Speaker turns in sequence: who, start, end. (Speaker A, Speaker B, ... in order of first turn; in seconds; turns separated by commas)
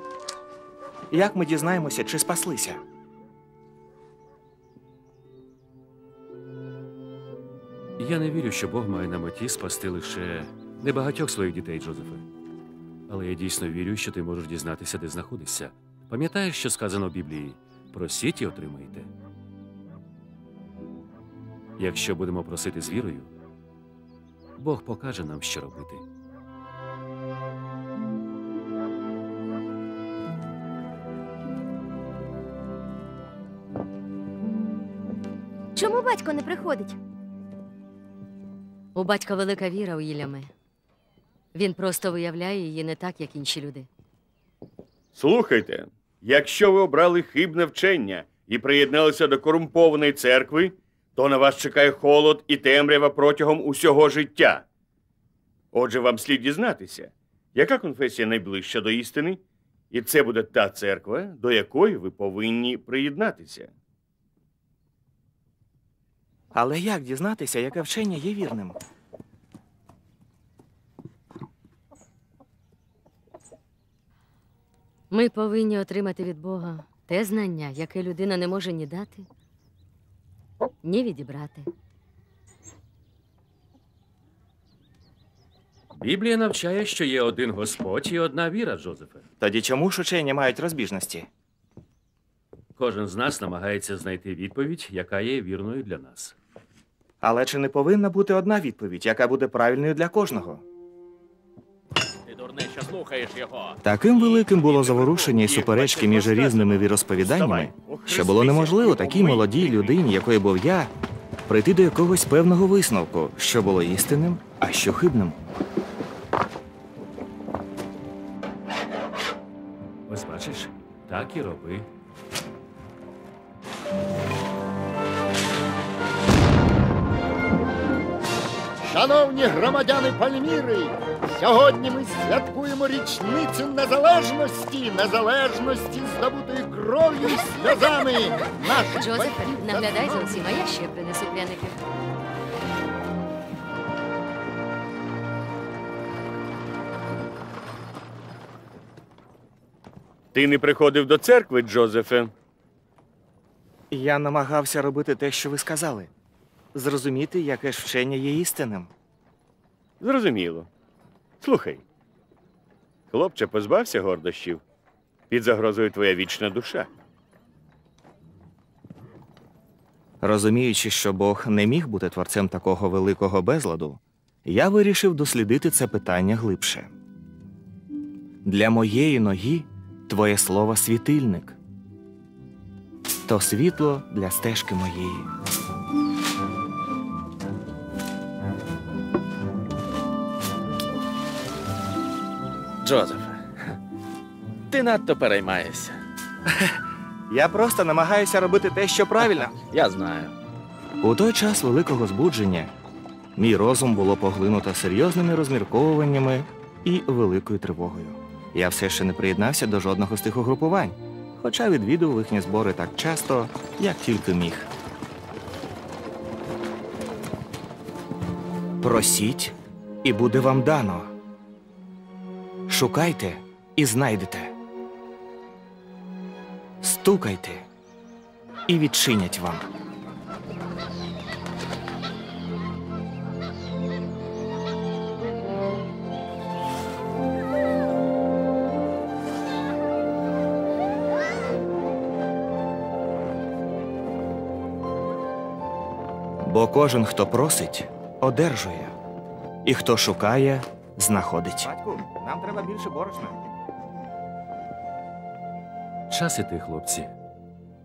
Speaker A: 1.1-2.8, Speaker B: 8.0-12.3, Speaker B: 13.1-19.1, Speaker B: 21.8-23.3, Speaker B: 24.6-26.1, Speaker C: 39.0-40.5, Speaker C: 41.5-43.9, Speaker D: 45.1-54.6, Speaker D: 55.7-59.4, Speaker D: 59.9-63.7, Speaker A: 66.5-68.8, Speaker C: 75.1-79.3, Speaker C: 80.8-81.7, Speaker B: 85.9-89.3, Speaker A: 89.4-91.3, Speaker B: 92.8-96.3, Speaker A: 97.2-100.6, Speaker E: 102.2-105.2, Speaker A: 103.8-110.9, Speaker D: 104.6-110.0, Speaker A: 111.5-115.5, Speaker B: 120.1-121.9, Speaker F: 128.8-140.4, Speaker C: 138.9-141.8, Speaker D: 150.3-152.3, Speaker A: 153.9-156.1, Speaker A: 156.7-158.9, Speaker D: 160.0-160.7, Speaker D: 161.4-161.8, Speaker D: 163.1-164.6, Speaker D: 165.3-166.9, Speaker A: 170.2-176.9, Speaker A: 178.4-181.6, Speaker A: 183.3-185.3, Speaker E: 192.8-193.8, Speaker E: 194.7-196.0, Speaker A: 196.5-199.5, Speaker E: 199.2-200.3, Speaker A: 201.0-202.7, Speaker A: 203.4-214.7, Speaker A: 218.8-221.1, Speaker A: 222.7-224.5, Speaker A: 226.8-227.7, Speaker A: 228.7-229.7, Speaker A: 246.4-249.0, Speaker A: 249.6-253.4, Speaker B: 256.1-257.1